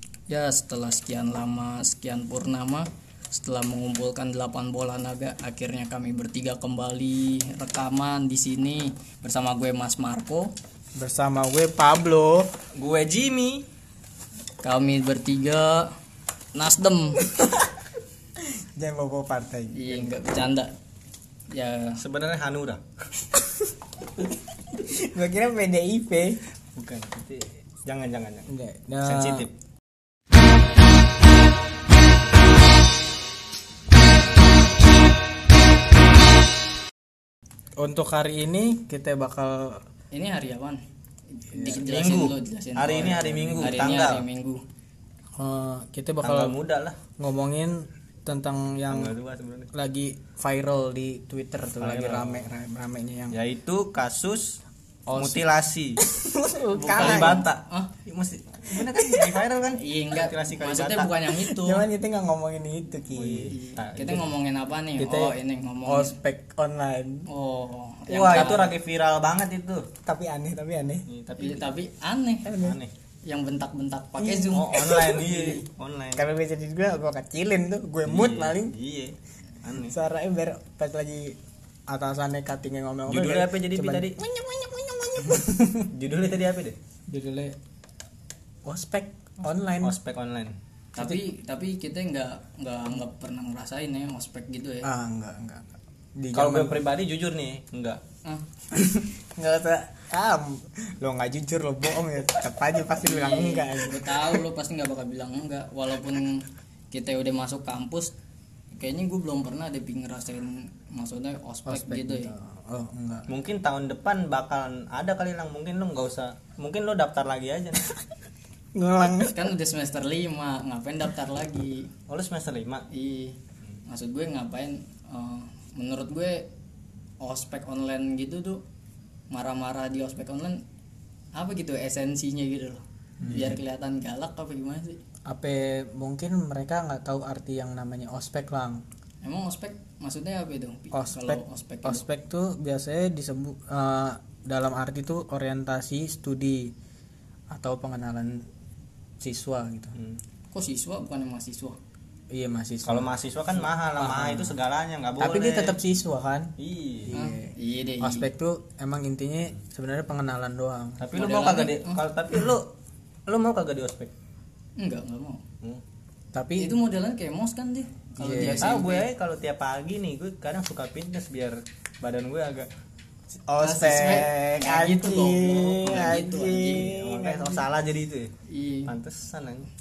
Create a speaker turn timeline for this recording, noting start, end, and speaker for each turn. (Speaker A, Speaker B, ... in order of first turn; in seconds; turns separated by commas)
Speaker A: 0.3-10.5, Speaker B: 10.9-12.5, Speaker C: 12.7-13.6, Speaker A: 14.6-15.9, Speaker A: 16.5-17.3, Speaker B: 18.4-20.1, Speaker A: 19.7-20.7, Speaker A: 21.5-22.0, Speaker C: 22.0-22.8, Speaker B: 24.7-26.4, Speaker C: 26.8-28.5, Speaker B: 28.5-29.5, Speaker C: 29.0-29.5, Speaker B: 37.8-39.8, Speaker A: 40.1-40.8, Speaker A: 41.4-44.6, Speaker B: 41.5-41.8, Speaker C: 41.6-44.2, Speaker B: 42.9-44.0, Speaker B: 45.4-46.5, Speaker C: 46.2-47.0, Speaker B: 47.2-49.1, Speaker C: 48.9-49.7, Speaker B: 49.7-53.4, Speaker C: 51.8-52.5, Speaker C: 53.3-56.0, Speaker B: 55.1-57.5, Speaker C: 56.8-61.1, Speaker A: 56.8-57.9, Speaker B: 58.7-59.4, Speaker A: 59.7-61.9, Speaker B: 61.3-63.5, Speaker C: 63.1-64.3, Speaker A: 63.5-66.2, Speaker B: 65.0-67.3, Speaker A: 67.3-68.7, Speaker C: 68.1-69.9, Speaker B: 70.0-71.0, Speaker C: 71.1-71.7, Speaker A: 71.4-72.5, Speaker B: 72.4-72.8, Speaker C: 72.5-72.9, Speaker A: 73.2-75.6, Speaker B: 74.2-75.3, Speaker C: 74.5-76.3, Speaker B: 76.2-78.8, Speaker C: 78.0-80.0, Speaker B: 79.8-81.4, Speaker B: 81.9-85.9, Speaker C: 83.1-84.3, Speaker C: 85.2-86.8, Speaker B: 87.1-87.6, Speaker B: 88.6-90.0, Speaker C: 89.8-90.5, Speaker A: 90.9-94.9, Speaker B: 94.8-96.8, Speaker C: 96.3-98.0, Speaker B: 98.7-104.4, Speaker A: 103.0-108.1, Speaker A: 108.8-112.3, Speaker B: 111.7-113.3, Speaker C: 113.3-118.0, Speaker B: 118.7-119.5, Speaker A: 119.1-121.9, Speaker C: 122.1-122.9, Speaker A: 122.9-123.4, Speaker A: 123.9-126.5, Speaker A: 127.2-128.6, Speaker A: 129.3-130.6, Speaker A: 131.3-135.0, Speaker B: 133.2-133.5, Speaker C: 133.3-133.6, Speaker B: 135.2-138.8, Speaker A: 139.2-142.0, Speaker B: 140.9-146.7, Speaker B: 147.5-148.4, Speaker B: 149.2-150.0, Speaker C: 149.9-150.2, Speaker A: 150.5-151.8, Speaker B: 152.3-153.1, Speaker C: 152.8-155.8, Speaker B: 153.9-154.6, Speaker B: 155.2-156.5, Speaker C: 156.6-157.1, Speaker B: 157.1-161.0, Speaker A: 157.1-158.3, Speaker C: 161.0-162.7, Speaker A: 161.1-162.0, Speaker C: 163.3-164.1, Speaker A: 164.8-165.4, Speaker B: 166.3-166.8, Speaker A: 166.6-169.1, Speaker B: 168.2-168.8, Speaker C: 168.5-172.7, Speaker B: 173.5-177.6, Speaker A: 173.6-176.9, Speaker C: 174.0-174.7, Speaker C: 175.8-178.3, Speaker A: 178.5-178.9, Speaker C: 178.8-179.7